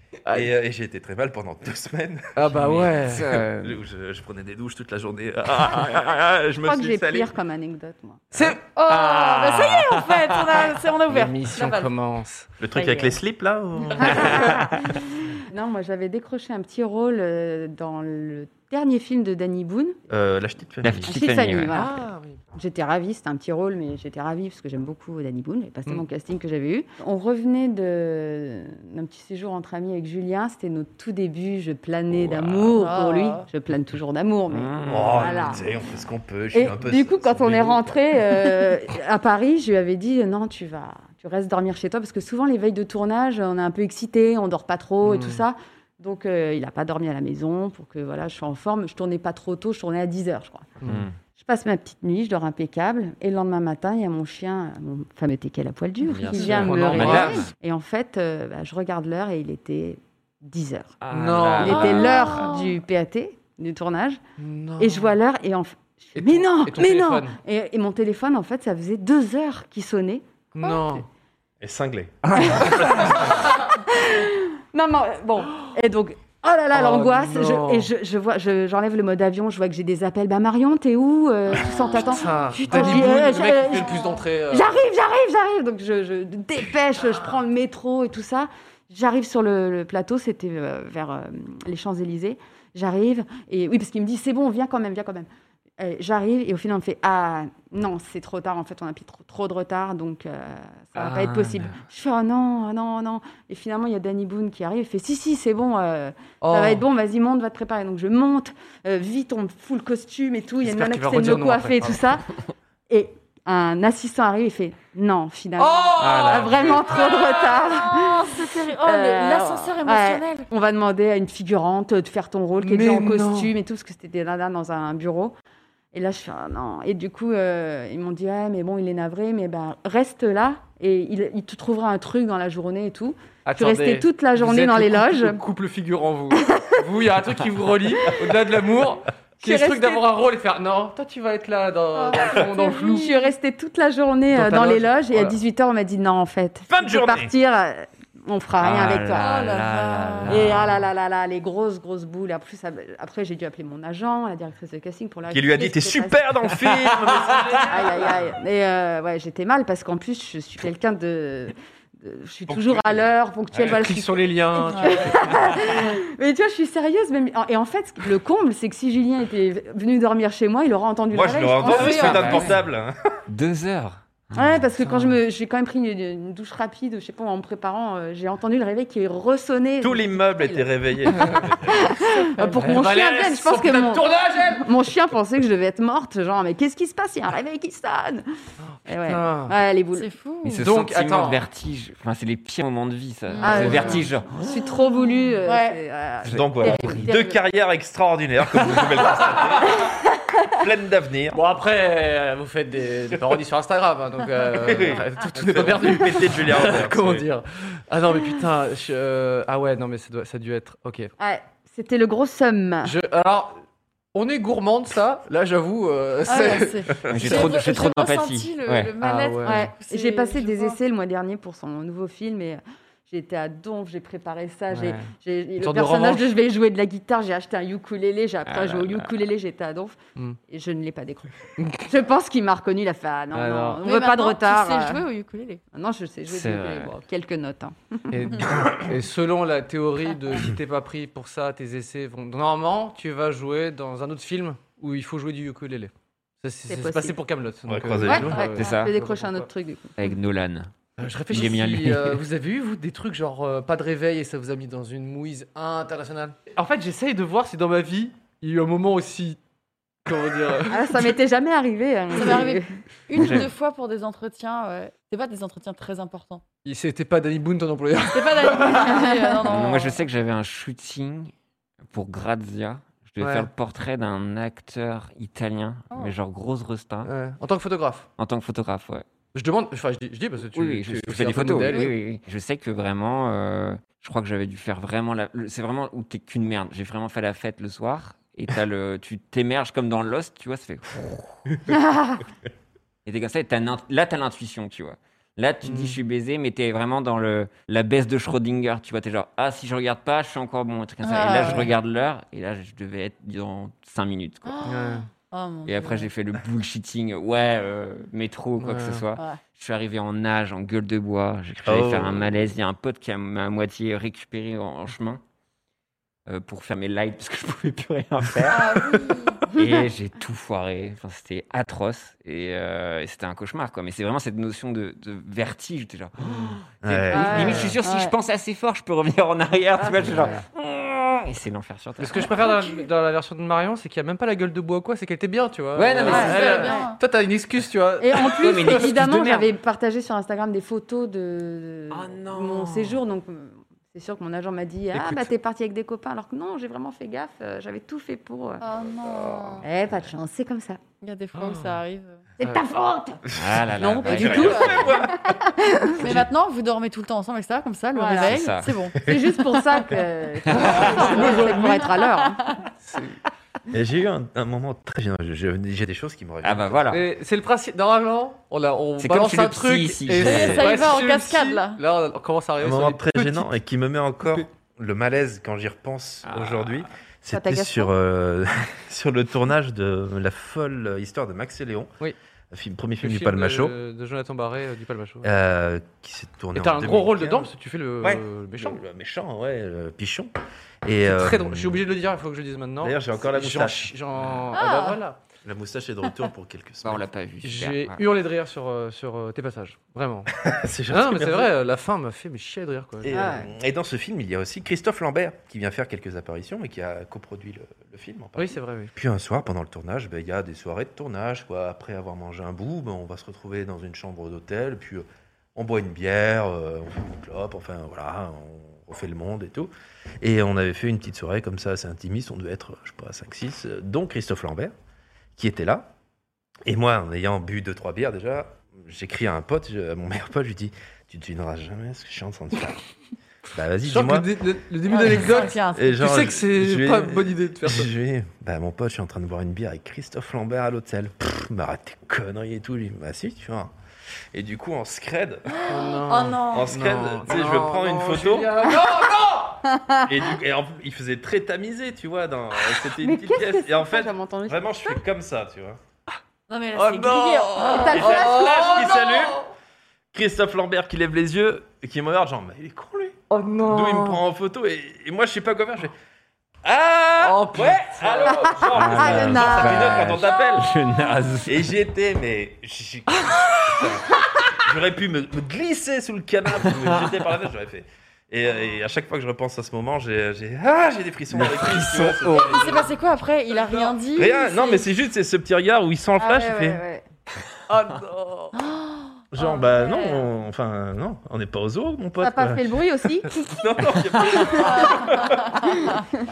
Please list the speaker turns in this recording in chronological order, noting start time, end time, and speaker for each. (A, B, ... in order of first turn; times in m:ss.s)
0:00.3-0:07.3 A
0:02.4-0:03.3 B
0:03.0-0:03.8 C
0:06.6-0:08.3 D
0:08.3-0:08.6 B
0:08.7-0:11.9 E
0:08.9-0:10.4 C
0:11.1-0:12.5 B
0:12.6-0:14.6 A
0:14.1-0:20.0 D
0:20.1-0:21.1 A
0:20.8-0:21.7 C
0:21.1-0:35.6 D
0:21.7-0:22.4 B
0:32.3-0:32.7 A
0:32.8-0:33.4 E
0:34.5-0:35.6 C
0:34.9-0:38.2 A
0:36.5-0:50.7 D
0:45.0-0:45.4 B
0:50.8-0:51.1 B
0:50.8-0:51.1 C
0:51.4-1:01.0 D
0:56.1-0:57.5 C
0:56.3-0:56.6 E
0:56.4-0:57.4 B
1:01.0-1:02.6 C
1:01.1-1:01.9 B
1:01.6-1:04.2 D
1:01.6-1:02.8 E
1:04.4-1:05.1 B
1:04.8-1:10.8 D
1:06.2-1:07.4 B
1:10.6-1:11.1 B
1:11.6-1:13.4 A
1:12.3-1:12.6 C
1:12.4-1:35.3 D
1:16.7-1:17.9 B
1:22.0-1:24.7 B
1:22.7-1:23.0 E
1:35.8-1:52.3 D
1:41.0-1:41.8 C
1:46.4-1:46.8 B
1:50.6-1:52.0 B
1:52.9-2:05.3 D
1:55.6-1:56.8 B
1:56.0-1:56.8 C
1:56.9-2:00.5 E
2:02.6-2:03.5 B
2:05.9-2:15.4 D
2:13.4-2:23.1 B
2:16.4-2:16.8 D
2:19.4-2:20.0 D
2:21.9-2:23.3 E
2:22.9-2:29.4 D
2:24.3-2:25.4 B
2:26.7-2:27.3 A
2:28.6-2:30.8 C
2:29.1-2:30.5 E
2:30.3-2:36.2 D
2:35.3-2:37.9 A
2:37.7-2:52.4 D
2:42.5-2:43.8 A
2:43.6-2:45.4 B
2:44.7-2:45.1 E
2:51.1-2:52.9 A
2:51.6-2:52.5 E
2:51.7-2:52.6 C
2:53.3-2:54.3 C
2:54.4-3:00.6 D
2:54.8-2:55.2 B
2:59.8-3:01.9 A
3:01.7-3:08.2 D
3:02.4-3:04.7 B
3:08.6-3:09.5 B
3:08.9-3:10.1 D
3:10.0-3:10.6 E
3:10.4-3:14.3 C
3:10.6-3:11.4 B
3:13.3-3:14.5 E
3:13.4-3:17.4 D
3:13.5-3:14.0 B
3:15.4-3:15.8 E
3:16.3-3:17.0 C
3:16.3-3:20.0 A
3:20.5-3:21.4 A
3:21.3-3:31.1 B
3:24.6-3:27.3 A
3:31.2-3:32.9 D
3:32.8-3:33.6 B
3:34.1-3:37.5 B
3:36.3-3:40.8 E
3:37.1-3:37.5 A
3:37.1-3:39.0 C
3:39.0-3:39.7 B
3:39.4-3:50.0 D
3:44.7-3:46.3 B
3:48.5-3:49.1 C
3:50.5-3:55.0 D
3:51.6-3:51.9 B
3:53.3-3:53.8 B
3:53.8-3:55.6 E
3:55.7-3:58.4 D
3:56.3-3:56.9 C
3:58.1-4:09.5 B
4:06.7-4:07.2 D
4:07.7-4:08.5 A
4:08.0-4:10.0 D
4:08.6-4:08.9 C
4:10.0-4:10.7 C
4:11.0-4:19.4 B
4:11.3-4:12.2 C
4:20.0-4:21.1 B
4:20.7-4:22.8 D
4:22.2-4:26.4 E
4:26.6-4:29.1 B
4:28.1-4:30.0 E
4:29.5-4:31.3 C
4:31.9-4:37.1 C
4:33.2-4:33.5 B
4:37.0-4:38.1 B
4:38.2-4:39.1 C
4:39.3-4:41.9 B
4:40.5-4:51.4 C
4:53.0-5:04.6 C
4:55.6-4:56.0 B
5:01.0-5:01.7 E
5:04.5-5:06.1 E
5:04.6-5:05.1 B
5:05.7-5:15.2 C
5:08.6-5:09.0 B
5:11.6-5:12.5 A
5:16.3-5:18.7 C
5:18.5-5:19.5 E
5:19.5-5:32.3 C
5:26.8-5:27.7 A
5:27.1-5:28.2 E
5:27.3-5:27.7 B
5:30.1-5:30.4 B
5:32.0-5:38.9 B
5:32.4-5:32.7 E
5:35.8-5:36.7 C
5:36.0-5:37.0 E
5:36.1-5:36.8 D
5:38.0-5:48.6 D
5:38.4-5:39.5 C
5:41.9-5:43.0 C
5:44.9-5:45.3 B
5:48.6-5:49.6 E
5:49.6-5:50.8 D
5:51.0-5:52.2 E
5:51.3-5:51.8 B
5:52.4-5:53.2 D
5:53.3-5:55.2 A
5:53.4-5:54.8 C
5:53.8-5:56.0 D
5:54.0-5:55.1 E
5:56.0-5:59.0 E
5:57.9-5:58.4 D
5:58.2-5:58.7 C
5:59.0-6:02.4 D
6:00.5-6:02.6 E
6:00.5-6:01.8 B
6:02.8-6:03.2 B
6:03.7-6:06.9 A
6:06.4-6:07.0 C
6:06.9-6:13.5 B
6:09.0-6:10.7 C
6:10.2-6:11.8 E
6:12.6-6:21.9 A
6:16.3-6:16.9 C
6:17.3-6:17.9 D
6:22.5-6:23.8 A
6:23.0-6:25.3 B
6:25.2-6:27.5 A
6:26.6-6:28.8 B
6:28.0-6:30.3 A
6:30.8-6:31.8 A
6:31.1-6:35.2 B
6:32.8-6:33.9 A
6:34.5-6:35.0 E
6:35.4-6:37.1 A
6:36.8-6:38.0 C
6:37.4-6:40.4 B
6:40.4-6:41.5 A
6:40.9-6:43.4 B
6:43.0-7:04.7 A
6:43.1-6:43.5 D
6:48.4-6:48.9 B
7:05.4-7:05.9 A
7:06.7-7:12.8 A
7:13.5-7:14.3 A
7:13.8-7:17.9 B
7:14.9-7:16.0 E
7:15.7-7:23.7 A
7:24.3-7:25.7 A
7:25.5-7:26.7 E
7:25.7-7:29.7 B
7:26.5-7:28.6 A
7:28.7-7:29.1 D
7:29.6-7:30.1 D
7:30.1-7:35.8 A
7:32.9-7:35.0 D
7:36.5-7:38.1 E
7:36.8-7:39.4 B
7:37.6-7:38.9 D
7:37.9-7:39.4 A
7:40.1-7:45.9 A
7:43.3-7:44.2 B
7:46.6-7:50.7 A
7:47.2-7:48.4 B
7:48.3-7:50.2 D
7:48.7-7:51.7 C
7:51.5-8:02.9 A
8:01.4-8:02.2 C
8:02.2-8:04.9 E
8:03.5-8:06.8 A
8:06.2-8:07.0 D
8:07.7-8:08.5 B
8:08.5-8:10.2 E
8:09.3-8:15.9 A
8:12.2-8:13.3 D
8:14.6-8:15.8 E